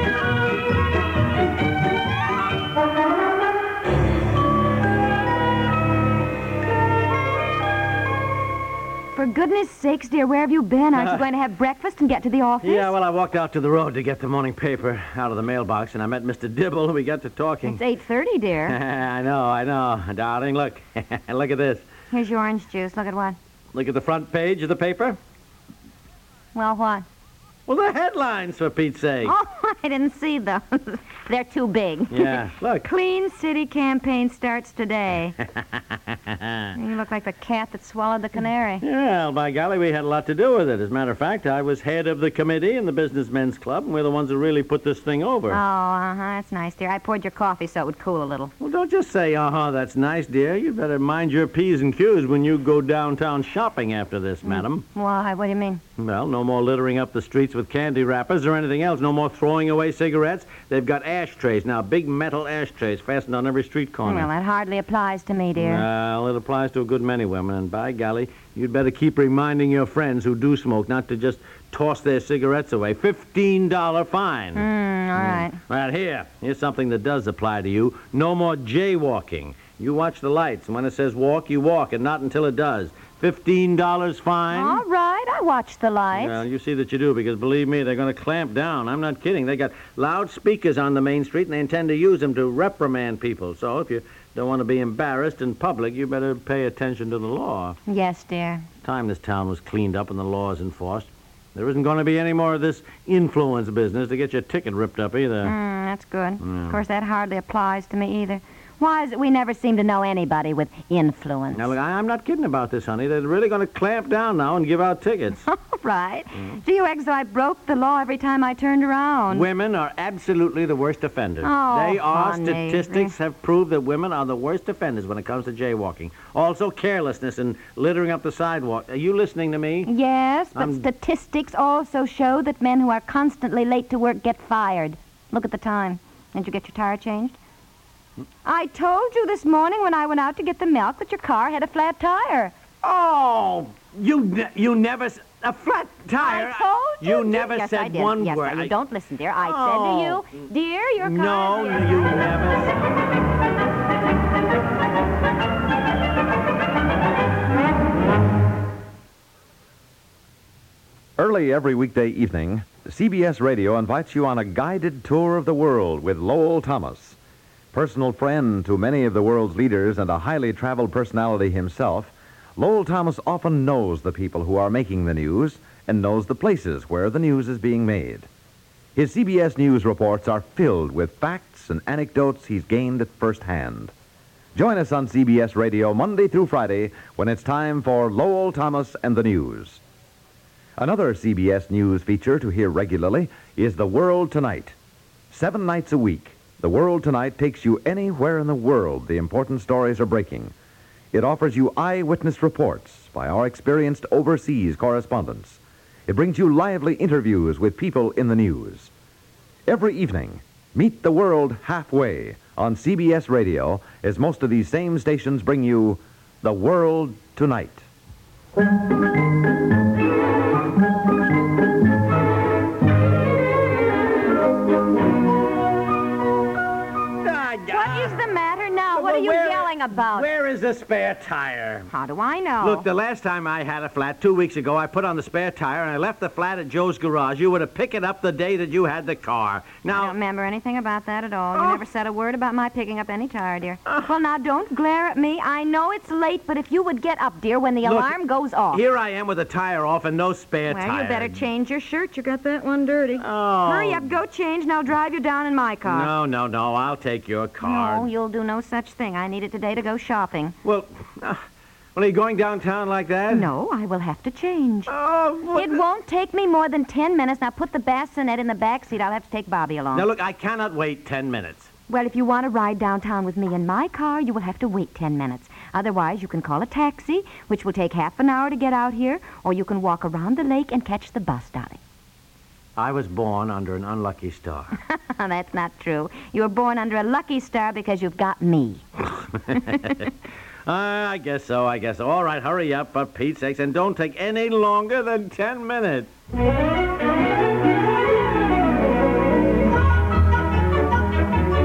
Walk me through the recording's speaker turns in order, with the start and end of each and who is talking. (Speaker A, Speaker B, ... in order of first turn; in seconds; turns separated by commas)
Speaker A: 9.1-12.9, Speaker B: 10.9-11.2, Speaker B: 12.6-17.8, Speaker A: 17.6-18.8, Speaker B: 18.7-21.8, Speaker A: 22.1-23.4, Speaker B: 23.7-25.2, Speaker A: 26.5-27.1, Speaker B: 27.7-29.3, Speaker A: 29.2-35.4, Speaker B: 32.1-32.9, Speaker B: 35.6-36.6, Speaker A: 36.7-38.8, Speaker B: 38.8-45.6, Speaker A: 45.5-48.5, Speaker B: 48.6-54.8, Speaker A: 54.4-55.8, Speaker B: 56.0-64.3, Speaker A: 64.0-65.8, Speaker B: 65.5-84.8, Speaker A: 74.5-75.6, Speaker A: 84.5-86.4, Speaker B: 86.1-97.8, Speaker A: 97.8-98.7, Speaker B: 98.8-105.5, Speaker A: 105.4-111.7, Speaker B: 106.4-106.8, Speaker B: 111.5-115.4, Speaker A: 115.4-119.5, Speaker B: 119.3-129.9, Speaker A: 121.4-123.1, Speaker A: 129.8-137.4, Speaker B: 130.6-130.8, Speaker A: 138.4-142.5, Speaker B: 142.8-148.7, Speaker A: 146.2-152.2, Speaker B: 149.4-150.5, Speaker B: 151.0-152.9, Speaker C: 161.2-167.2, Speaker C: 167.7-178.3, Speaker C: 178.9-183.9, Speaker C: 184.5-189.8, Speaker C: 190.8-194.8, Speaker C: 195.3-200.5, Speaker C: 201.1-208.9, Speaker C: 209.7-217.9, Speaker B: 227.2-228.2, Speaker A: 227.7-230.3, Speaker B: 228.9-231.9, Speaker A: 231.9-232.8, Speaker B: 232.6-240.1, Speaker A: 239.9-248.8, Speaker B: 241.5-241.8, Speaker B: 247.8-248.1, Speaker B: 248.7-251.4, Speaker A: 250.7-256.1, Speaker B: 253.2-254.2, Speaker B: 255.8-258.1, Speaker A: 257.6-260.6, Speaker B: 260.6-261.4, Speaker B: 261.9-263.5, Speaker A: 263.3-264.9, Speaker B: 264.9-265.8, Speaker A: 265.5-270.1, Speaker B: 269.9-271.7, Speaker A: 271.9-281.8, Speaker B: 282.8-284.7, Speaker A: 284.8-288.8, Speaker B: 289.5-289.9, Speaker A: 289.5-289.9, Speaker B: 290.6-296.1